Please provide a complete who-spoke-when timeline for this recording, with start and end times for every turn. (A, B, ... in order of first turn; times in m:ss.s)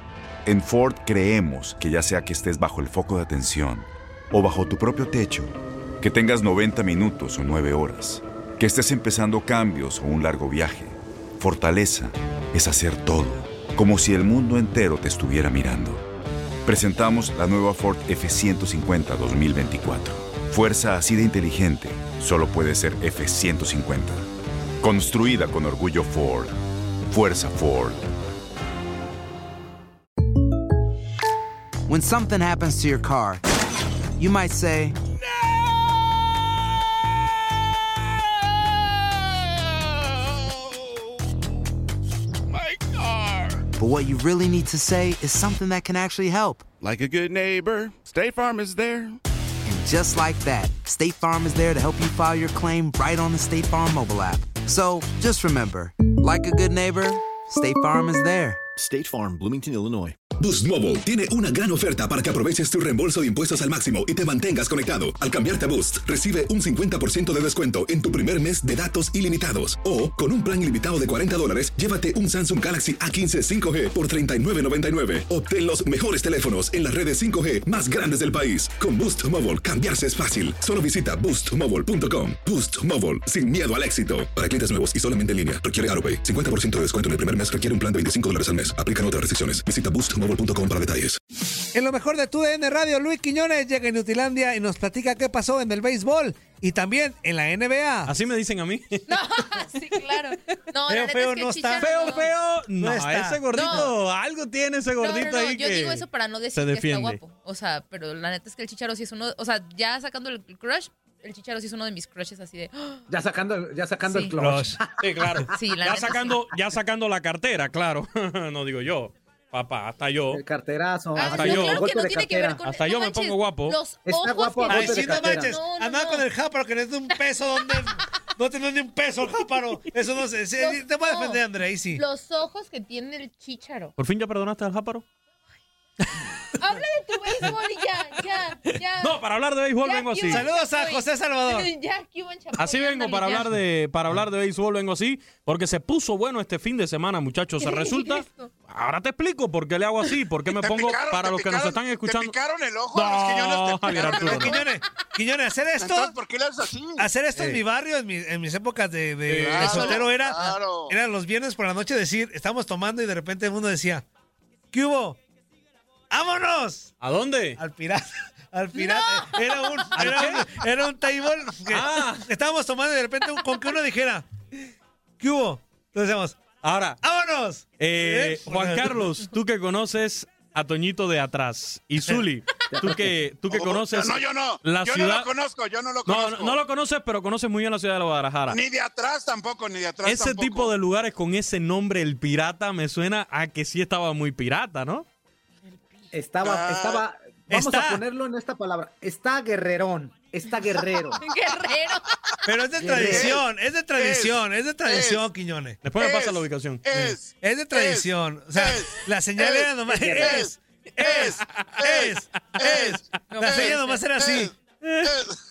0:00.5-0:16.0 A
0:16.6-0:24.2 A
0:24.8-0:26.5 A
0:27.1-0:28.0 A
0:31.9-0:33.4 B
0:34.2-0:34.9 B
0:42.5-0:43.6 C
0:43.8-0:46.6 B
0:46.8-0:49.2 C
0:49.7-0:58.6 B
1:00.4-1:31.2 D
1:31.7-1:38.1 E
1:38.0-1:39.0 F
1:39.1-1:42.4 G
1:40.9-1:41.8 E
1:41.8-1:47.2 F
1:42.8-1:43.4 E
1:43.4-1:43.9 G
1:45.0-1:53.0 G
1:53.1-1:56.0 H
1:54.1-1:54.4 G
1:55.0-2:00.4 F
1:55.6-1:56.4 G
2:00.3-2:02.6 H
2:01.2-2:06.3 G
2:01.2-2:01.8 F
2:02.6-2:03.8 F
2:04.0-2:05.6 H
2:05.1-2:12.0 E
2:07.1-2:08.1 G
2:09.2-2:14.0 G
2:14.0-2:15.0 F
2:16.6-2:19.2 G
2:19.0-2:20.5 F
2:19.8-2:23.5 G
2:20.4-2:21.6 E
2:22.6-2:32.3 F
2:27.6-2:28.5 G
2:30.6-2:34.5 I
2:32.9-2:34.6 F
2:34.2-2:36.0 E
2:34.4-2:34.8 G
2:35.8-2:37.1 I
2:37.0-2:40.3 E
2:39.3-2:40.1 F
2:39.3-2:41.0 I
2:39.6-2:40.1 G
2:40.9-2:44.0 E
2:44.7-2:45.2 E
2:46.1-2:46.9 E
2:47.0-2:47.6 F
2:47.6-2:54.2 E
2:48.8-2:50.0 G
2:50.0-2:50.5 F
2:51.7-2:52.3 F
2:53.5-2:53.7 F
2:55.2-2:56.4 E
2:56.6-2:57.0 F
2:57.0-2:58.9 E
2:57.8-3:05.3 F
3:02.7-3:03.1 H
3:03.5-3:06.6 I
3:06.1-3:08.6 F
3:08.5-3:10.7 I
3:10.0-3:15.1 F
3:16.1-3:21.2 H
3:16.4-3:17.0 I
3:17.5-3:18.0 F
3:21.2-3:22.1 G
3:22.5-3:25.8 E
3:22.8-3:23.4 H
3:24.0-3:25.2 I
3:25.8-3:27.2 F
3:26.0-3:34.5 I
3:27.4-3:30.4 E
3:32.0-3:32.8 E
3:33.3-3:34.2 G
3:35.0-3:35.4 I